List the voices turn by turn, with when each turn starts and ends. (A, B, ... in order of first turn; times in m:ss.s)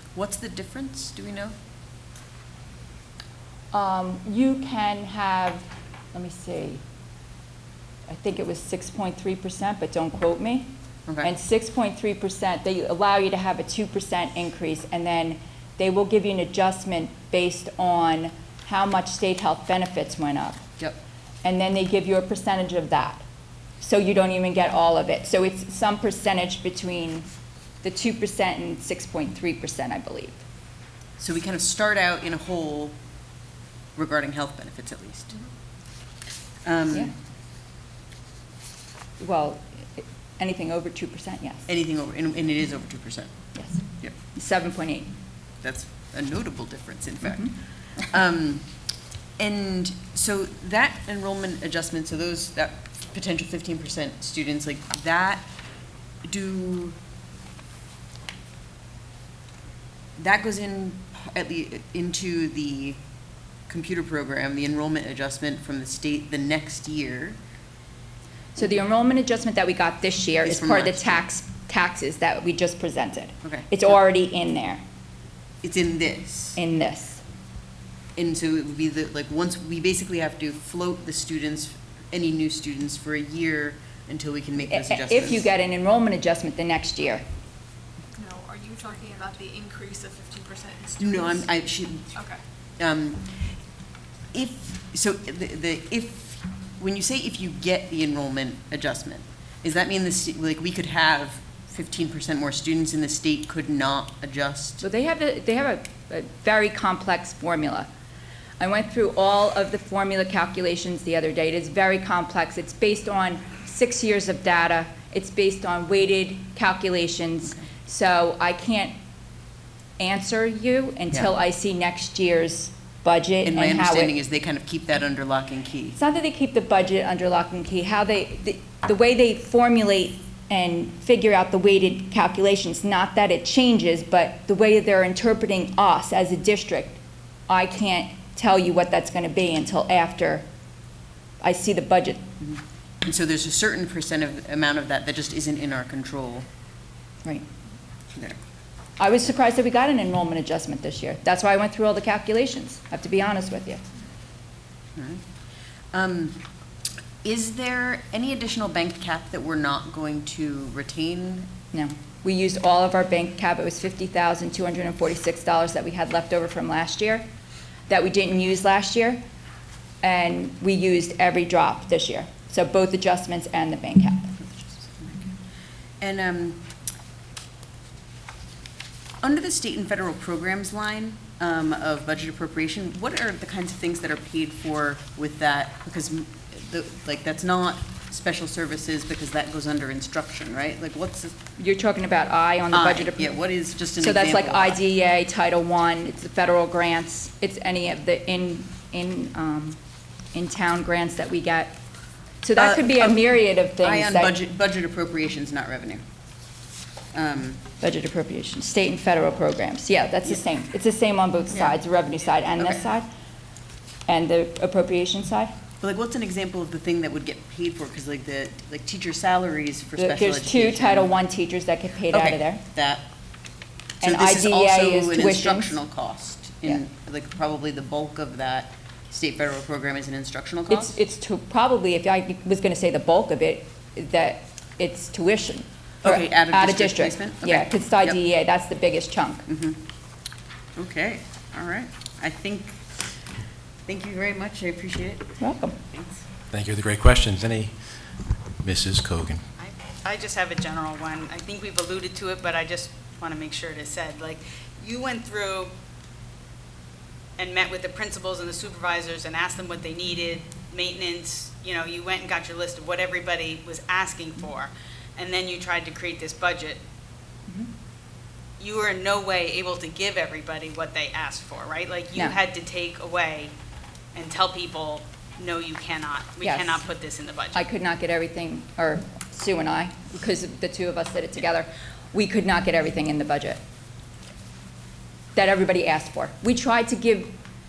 0:00.2-0:01.6 A
0:03.7-0:06.8 B
0:08.1-0:10.7 B
0:11.2-0:20.6 B
0:21.4-0:23.2 B
0:23.8-0:27.3 B
0:27.8-0:30.4 B
0:31.2-0:33.0 A
0:34.0-0:35.4 A
0:36.6-0:37.1 A
0:39.2-0:41.7 B
0:41.7-0:43.3 A
0:43.6-0:45.1 B
0:45.6-0:48.7 A
0:47.2-0:47.5 B
0:49.4-0:55.5 A
0:56.2-0:57.0 A
1:00.2-1:03.0 A
1:03.7-1:07.4 A
1:08.6-1:14.8 B
1:10.4-1:11.2 A
1:13.4-1:13.9 A
1:15.6-1:16.6 A
1:16.6-1:17.2 B
1:18.2-1:25.5 A
1:24.7-1:27.2 B
1:28.2-1:31.5 C
1:31.0-1:32.1 A
1:32.1-1:32.4 C
1:32.8-1:33.5 A
1:34.3-1:44.8 A
1:44.8-1:47.9 B
1:48.6-1:58.9 B
2:00.0-2:04.1 B
2:03.4-2:06.0 A
2:06.0-2:20.4 B
2:21.4-2:22.2 B
2:22.4-2:26.5 A
2:28.2-2:28.4 A
2:29.0-2:33.8 B
2:35.0-2:35.2 A
2:35.9-2:36.4 A
2:37.2-2:41.5 A
2:41.7-2:47.2 B
2:47.9-2:49.2 B
2:50.0-2:54.3 B
2:54.4-2:55.4 A
2:56.0-2:56.7 A
2:59.2-3:11.4 A
3:11.6-3:13.4 B
3:12.7-3:14.8 A
3:14.0-3:19.8 B
3:20.3-3:21.7 B
3:22.4-3:24.4 B
3:22.6-3:26.0 A
3:27.1-3:27.6 A
3:27.8-3:33.1 B
3:31.5-3:31.8 A
3:32.6-3:32.8 A
3:34.1-3:35.5 B
3:35.8-3:41.1 A
3:40.0-3:42.6 B
3:42.1-3:43.1 A
3:44.0-3:50.9 A
3:44.0-3:45.8 B
3:50.7-3:59.5 B
3:56.0-3:58.2 A
3:59.5-3:59.8 A
4:00.8-4:03.2 A
4:03.9-4:06.2 A
4:05.4-4:05.8 B
4:06.5-4:09.4 D
4:09.6-4:15.7 E
4:17.4-4:26.8 E
4:28.6-4:33.5 E
4:34.2-4:37.6 E
4:36.4-4:36.8 B
4:37.6-4:43.6 B
4:45.4-4:47.3 B